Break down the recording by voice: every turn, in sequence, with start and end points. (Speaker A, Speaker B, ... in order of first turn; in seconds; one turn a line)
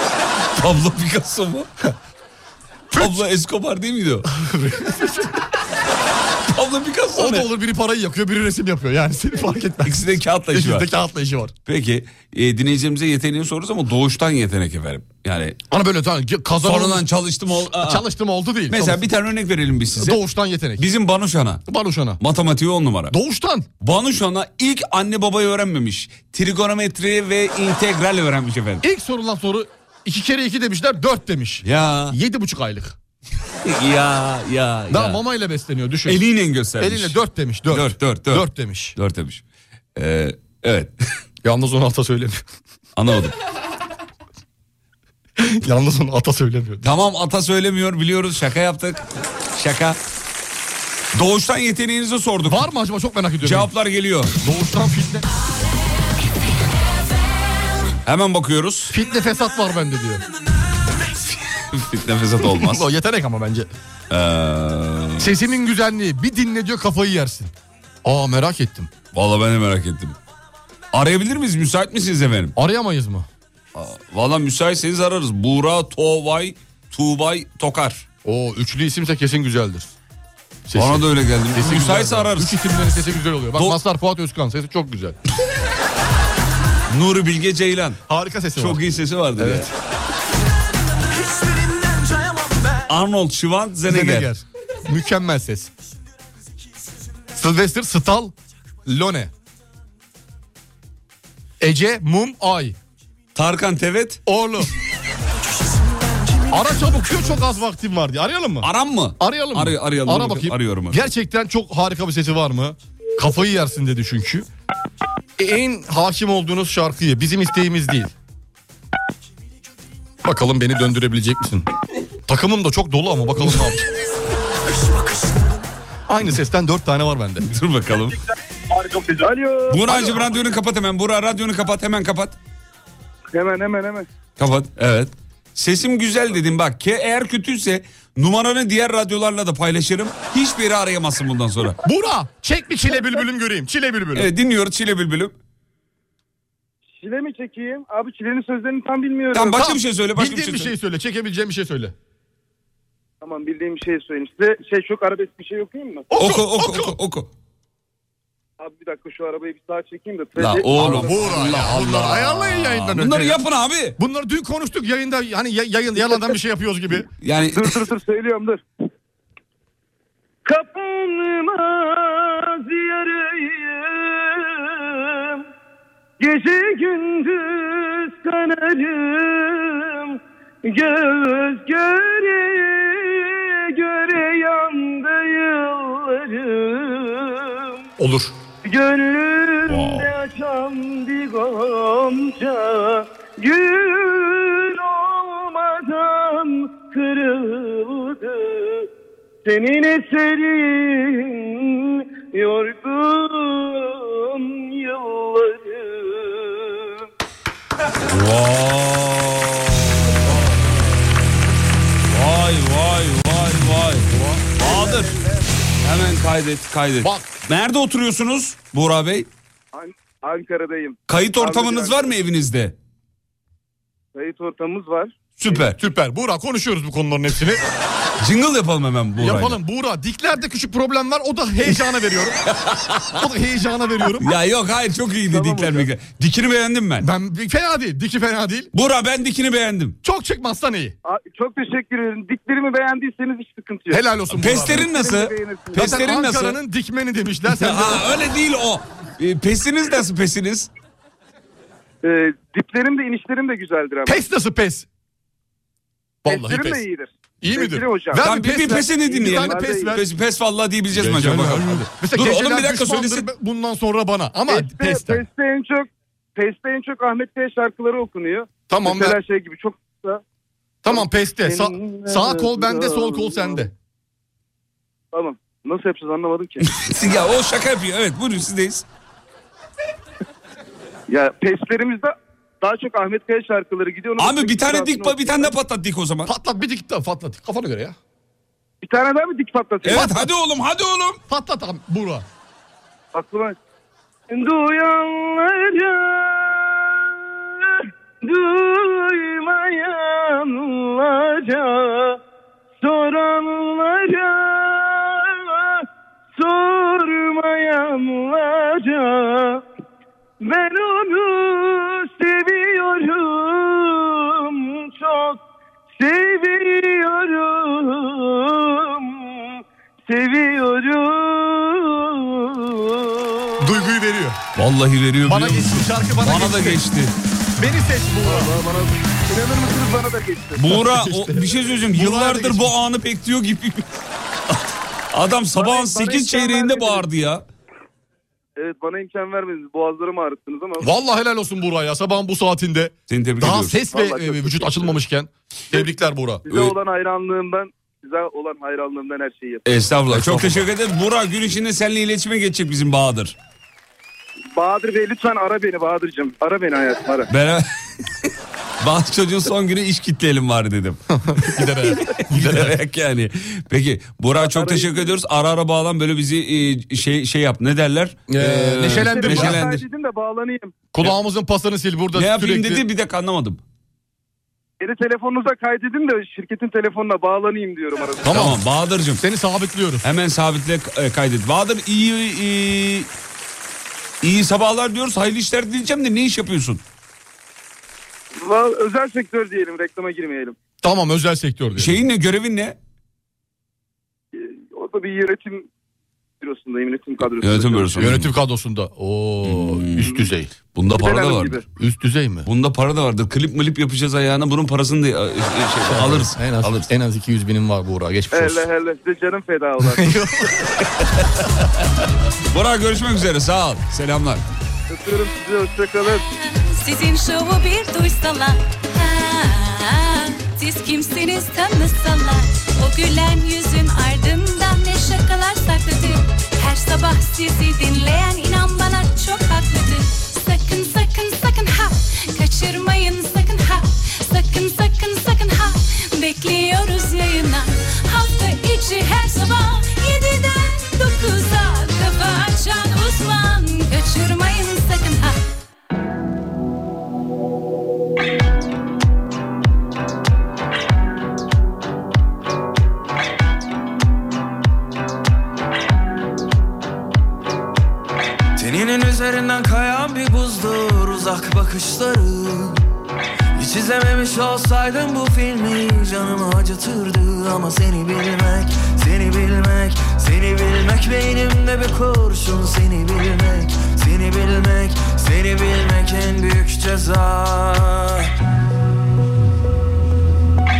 Speaker A: 0.6-1.7
Speaker A: 3.0-4.3
Speaker B: 4.3-5.3
Speaker A: 6.5-7.5
Speaker B: 7.1-10.0
Speaker A: 9.8-10.9
Speaker B: 10.5-11.5
Speaker A: 11.7-15.6
Speaker B: 15.7-19.0
Speaker A: 16.6-18.0
Speaker A: 18.7-20.2
Speaker B: 20.0-20.8
Speaker A: 20.8-21.6
Speaker B: 21.7-22.2
Speaker A: 22.2-23.1
Speaker B: 23.1-23.7
Speaker A: 23.8-28.8
Speaker B: 28.8-33.0
Speaker A: 31.6-32.1
Speaker A: 33.6-35.2
Speaker B: 34.9-36.2
Speaker A: 36.0-37.2
Speaker B: 36.8-39.0
Speaker A: 37.7-39.4
Speaker A: 40.0-40.9
Speaker B: 41.4-42.4
Speaker A: 43.0-43.3
Speaker B: 45.4-46.9
Speaker A: 46.8-49.0
Speaker A: 49.5-50.0
Speaker A: 51.1-52.7
Speaker B: 52.4-53.7
Speaker A: 53.4-54.3
Speaker B: 54.4-55.2
Speaker A: 58.0-59.0
Speaker B: 58.9-60.2
Speaker A: 61.1-62.9
Speaker B: 62.5-63.7
Speaker A: 64.1-65.3
Speaker B: 65.2-67.5
Speaker B: 68.0-68.9
Speaker A: 69.1-70.2
Speaker A: 70.9-72.5
Speaker B: 72.6-73.3
Speaker A: 73.7-78.0
Speaker B: 78.2-79.9
Speaker B: 80.7-85.2
Speaker A: 80.7-82.7
Speaker A: 86.9-88.0
Speaker B: 88.1-89.7
Speaker A: 88.5-89.7
Speaker C: 91.1-92.9
Speaker A: 92.9-94.3
Speaker B: 93.9-95.7
Speaker B: 97.3-98.3
Speaker B: 98.8-99.3
Speaker B: 101.6-102.8
Speaker A: 103.3-104.2
Speaker B: 104.2-104.7
Speaker B: 106.5-108.7
Speaker A: 108.6-111.1
Speaker B: 109.2-114.5
Speaker B: 115.4-118.1
Speaker B: 120.2-121.7
Speaker B: 122.3-123.8
Speaker C: 124.8-125.4
Speaker B: 126.1-127.4
Speaker A: 127.4-128.2
Speaker C: 128.8-129.3
Speaker D: 129.2-130.2
Speaker A: 129.7-132.4
Speaker D: 133.3-134.1
Speaker A: 134.4-141.8
Speaker B: 141.8-144.3
Speaker A: 144.1-145.3
Speaker D: 147.0-149.6
Speaker A: 149.3-150.7
Speaker B: 149.6-151.9
Speaker D: 153.2-156.0
Speaker B: 156.1-157.0
Speaker A: 156.1-157.3
Speaker D: 158.6-161.3
Speaker A: 160.3-164.0
Speaker B: 160.7-163.4
Speaker B: 164.0-167.1
Speaker A: 167.2-167.9
Speaker D: 167.5-168.6
Speaker D: 170.4-175.4
Speaker D: 176.2-187.7
Speaker B: 188.0-188.3
Speaker D: 188.6-198.9
Speaker B: 189.7-190.1
Speaker D: 199.4-207.0
Speaker A: 208.0-210.6
Speaker A: 212.1-215.2
Speaker B: 214.1-214.5
Speaker D: 214.6-215.5
Speaker A: 215.8-219.3
Speaker D: 219.7-222.1
Speaker A: 221.1-222.8
Speaker D: 224.1-225.5
Speaker A: 225.4-225.8
Speaker B: 225.8-227.6
Speaker A: 228.2-229.6
Speaker B: 229.2-232.4
Speaker A: 232.5-233.1
Speaker B: 233.2-234.3
Speaker A: 234.2-237.1
Speaker D: 235.3-235.9
Speaker B: 237.0-238.7
Speaker A: 238.7-240.0
Speaker B: 240.0-240.9
Speaker D: 241.0-244.0
Speaker B: 243.9-244.9
Speaker A: 244.3-246.6
Speaker D: 244.6-245.9
Speaker B: 245.8-248.0
Speaker A: 247.5-250.7
Speaker D: 252.0-254.2
Speaker B: 254.1-254.8
Speaker B: 256.2-256.8
Speaker D: 256.3-260.0
Speaker B: 257.4-260.0
Speaker A: 258.1-263.3
Speaker B: 260.9-265.2
Speaker D: 264.5-270.2
Speaker B: 268.7-269.2
Speaker B: 270.8-273.7
Speaker D: 270.9-273.7
Speaker D: 275.1-276.6
Speaker A: 276.6-278.9
Speaker D: 281.1-285.5
Speaker A: 284.2-286.3
Speaker B: 286.2-288.0
Speaker D: 288.8-290.1
Speaker A: 289.8-291.2
Speaker B: 289.9-290.3
Speaker B: 291.3-292.2
Speaker D: 293.1-293.6
Speaker D: 294.3-302.2
Speaker D: 302.8-309.6
Speaker D: 310.4-315.4
Speaker D: 315.9-323.9
Speaker B: 323.6-324.4
Speaker A: 324.6-327.1
Speaker B: 325.2-326.8
Speaker B: 327.6-328.5
Speaker D: 328.2-330.6
Speaker A: 330.6-333.9
Speaker B: 330.7-332.7
Speaker A: 335.1-337.4
Speaker D: 335.5-337.1
Speaker D: 338.6-340.9
Speaker B: 340.8-346.4
Speaker A: 343.1-343.8
Speaker D: 343.9-345.0
Speaker D: 346.4-349.6
Speaker A: 346.5-346.8
Speaker A: 349.6-353.4
Speaker B: 350.1-350.7
Speaker D: 354.6-357.3
Speaker A: 357.3-357.7
Speaker A: 358.8-361.0
Speaker B: 361.1-362.8
Speaker A: 361.6-369.8
Speaker D: 364.4-365.1
Speaker B: 368.3-369.6
Speaker D: 368.9-370.8
Speaker B: 370.9-372.8
Speaker A: 372.1-373.6
Speaker D: 374.8-378.3
Speaker A: 378.2-379.2
Speaker B: 378.2-378.6
Speaker B: 379.2-380.1
Speaker A: 380.0-383.1
Speaker A: 384.2-386.8
Speaker D: 388.4-390.6
Speaker B: 390.8-392.0
Speaker A: 391.8-392.8
Speaker D: 394.3-395.7
Speaker D: 396.4-398.1
Speaker A: 397.4-398.3
Speaker B: 398.0-400.5
Speaker A: 399.4-400.2
Speaker A: 400.7-401.6
Speaker D: 401.0-401.6
Speaker B: 401.8-402.5
Speaker A: 402.4-406.9
Speaker B: 405.9-408.6
Speaker D: 408.3-410.0
Speaker B: 409.8-410.9
Speaker A: 412.5-414.4
Speaker D: 414.9-416.2
Speaker E: 416.1-445.4
Speaker F: 458.6-462.8
Speaker F: 463.5-478.3